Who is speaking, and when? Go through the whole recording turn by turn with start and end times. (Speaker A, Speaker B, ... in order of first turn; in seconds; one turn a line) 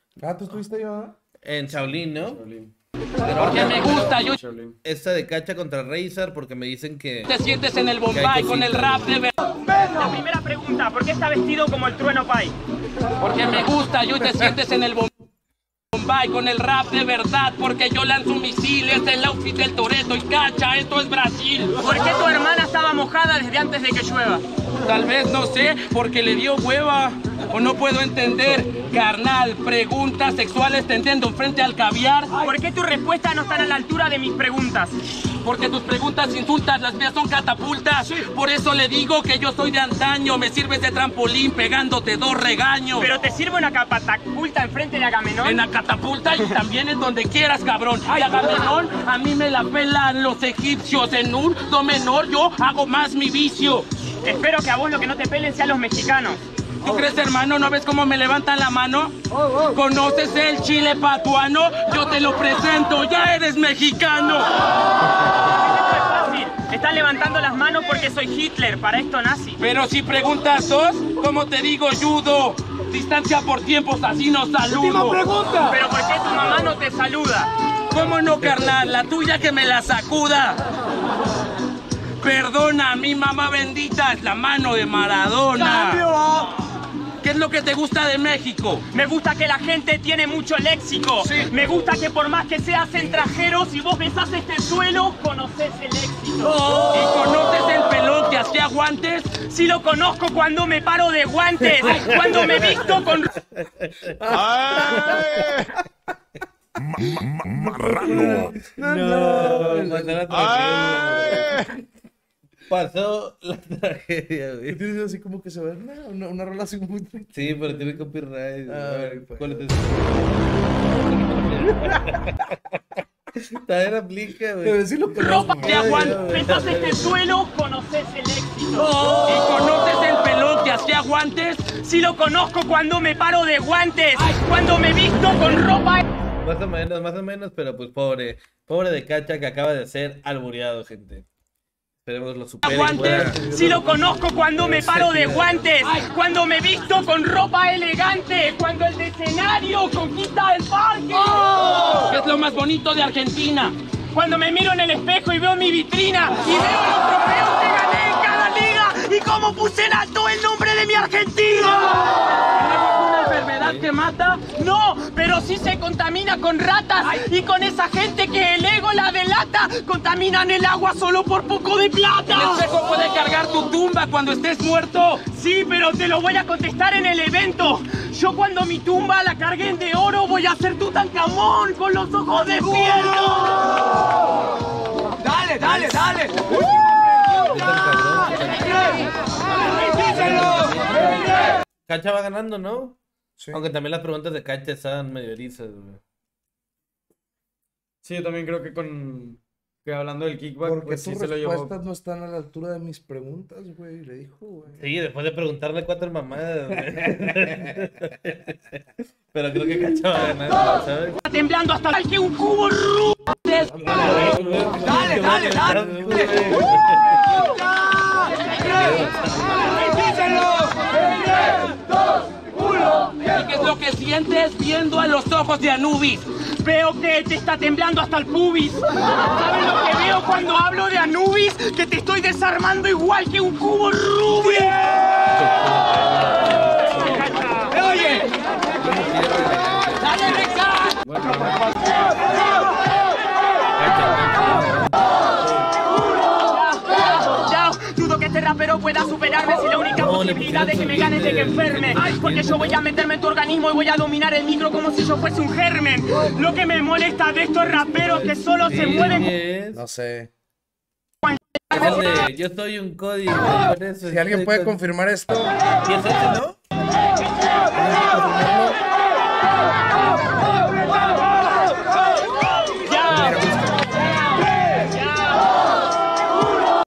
Speaker A: 0.2-1.1
Speaker B: 1.4-2.4
Speaker C: 1.7-2.7
Speaker B: 3.2-4.1
Speaker D: 3.4-4.4
Speaker C: 4.1-4.8
Speaker B: 4.8-7.4
Speaker D: 7.3-9.5
Speaker B: 8.1-9.1
Speaker E: 9.9-12.6
Speaker D: 13.2-15.1
Speaker D: 15.9-21.8
Speaker E: 21.8-24.4
Speaker D: 24.8-32.4
Speaker B: 28.4-28.9
Speaker E: 32.4-35.0
Speaker D: 35.4-43.1
Speaker E: 43.0-45.6
Speaker D: 45.4-53.9
Speaker E: 54.2-56.4
Speaker D: 56.8-59.1
Speaker D: 59.7-64.5
Speaker E: 65.4-69.6
Speaker D: 69.6-75.4
Speaker E: 75.7-77.5
Speaker D: 77.9-80.6
Speaker D: 82.2-86.1
Speaker D: 87.2-88.8
Speaker E: 88.9-96.6
Speaker D: 96.4-99.3
Speaker E: 99.3-103.3
Speaker D: 101.8-103.1
Speaker B: 102.2-105.7
Speaker A: 104.3-105.6
Speaker A: 107.2-111.7
Speaker B: 108.0-111.7
Speaker B: 112.7-114.8
Speaker A: 114.7-118.1
Speaker B: 117.3-123.0
Speaker A: 118.7-119.7
Speaker B: 123.5-127.2
Speaker A: 124.6-126.2
Speaker E: 125.2-128.9
Speaker D: 125.6-126.2
Speaker D: 128.8-131.7
Speaker E: 131.7-136.0
Speaker B: 136.4-141.3
Speaker B: 142.1-145.8
Speaker D: 142.6-143.3
Speaker E: 142.8-151.7
Speaker A: 142.9-144.2
Speaker D: 152.1-153.8
Speaker E: 154.1-162.0
Speaker D: 162.5-164.4
Speaker B: 163.6-163.9
Speaker E: 164.5-172.7
Speaker D: 172.3-175.2
Speaker E: 175.3-183.5
Speaker B: 185.5-186.7
Speaker B: 187.4-193.0
Speaker B: 193.5-196.0
Speaker C: 198.0-201.7
Speaker A: 200.6-204.8
Speaker B: 204.8-211.2
Speaker A: 207.0-207.5
Speaker E: 211.2-213.2
Speaker D: 213.3-213.8
Speaker B: 213.8-217.6
Speaker A: 213.9-214.1
Speaker E: 214.0-214.3
Speaker A: 215.7-216.3
Speaker B: 218.6-220.0
Speaker D: 223.2-226.3
Speaker E: 226.6-234.8
Speaker B: 235.3-237.4
Speaker E: 237.1-237.9
Speaker D: 237.9-238.2
Speaker B: 238.8-240.4
Speaker D: 240.0-241.0
Speaker C: 241.0-241.7
Speaker B: 243.8-245.1
Speaker E: 246.4-259.3
Speaker B: 249.9-252.8
Speaker B: 257.6-259.8
Speaker A: 259.7-260.3
Speaker B: 261.7-264.8
Speaker A: 264.0-265.6
Speaker B: 265.8-266.6
Speaker A: 267.8-268.8
Speaker B: 267.8-268.4
Speaker E: 272.7-273.4
Speaker A: 273.1-274.0
Speaker E: 274.7-275.5